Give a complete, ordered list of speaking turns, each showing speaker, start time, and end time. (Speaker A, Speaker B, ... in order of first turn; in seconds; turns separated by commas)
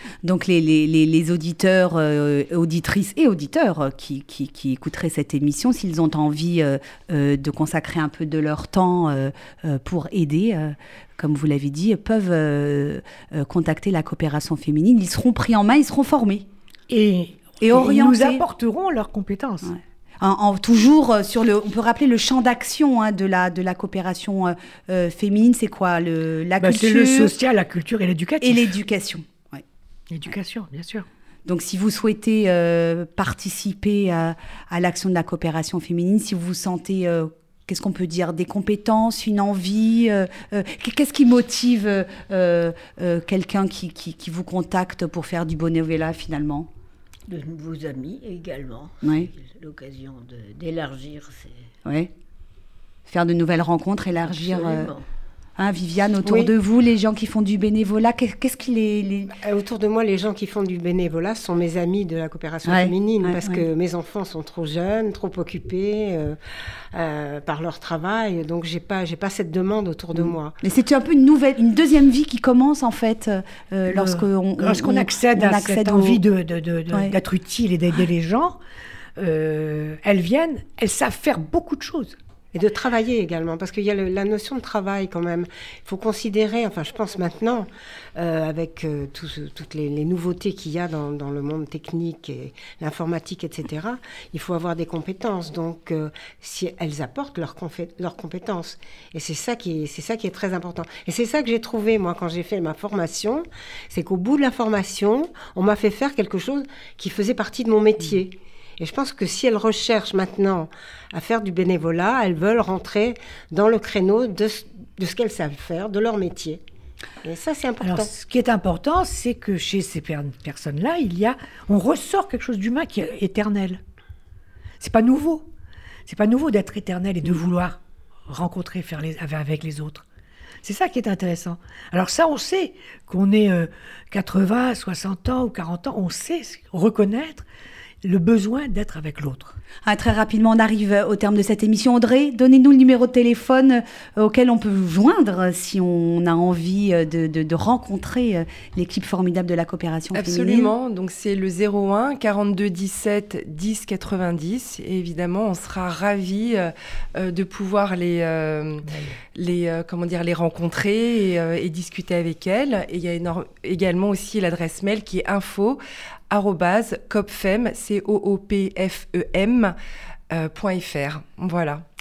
Speaker A: 0.2-16.4, Speaker B: 16.9-19.7, Speaker A: 17.6-18.4, Speaker A: 19.6-27.3, Speaker B: 26.6-28.7, Speaker A: 28.4-29.6, Speaker B: 30.1-31.1, Speaker A: 31.4-46.7, Speaker C: 47.3-51.6, Speaker A: 49.0-49.3, Speaker A: 53.1-54.9, Speaker C: 54.3-55.0, Speaker A: 55.6-59.3, Speaker D: 56.2-56.5, Speaker D: 59.3-66.4, Speaker A: 62.6-63.6, Speaker D: 66.9-70.5, Speaker A: 70.2-76.2, Speaker B: 73.9-78.6, Speaker B: 79.2-82.2, Speaker D: 82.5-116.6, Speaker D: 117.2-118.1, Speaker B: 117.8-123.8, Speaker B: 124.8-125.5, Speaker B: 126.1-130.0, Speaker B: 130.6-137.4, Speaker B: 138.0-139.6, Speaker A: 139.8-150.7, Speaker E: 150.1-169.7, Speaker B: 158.8-159.2, Speaker E: 170.3-171.8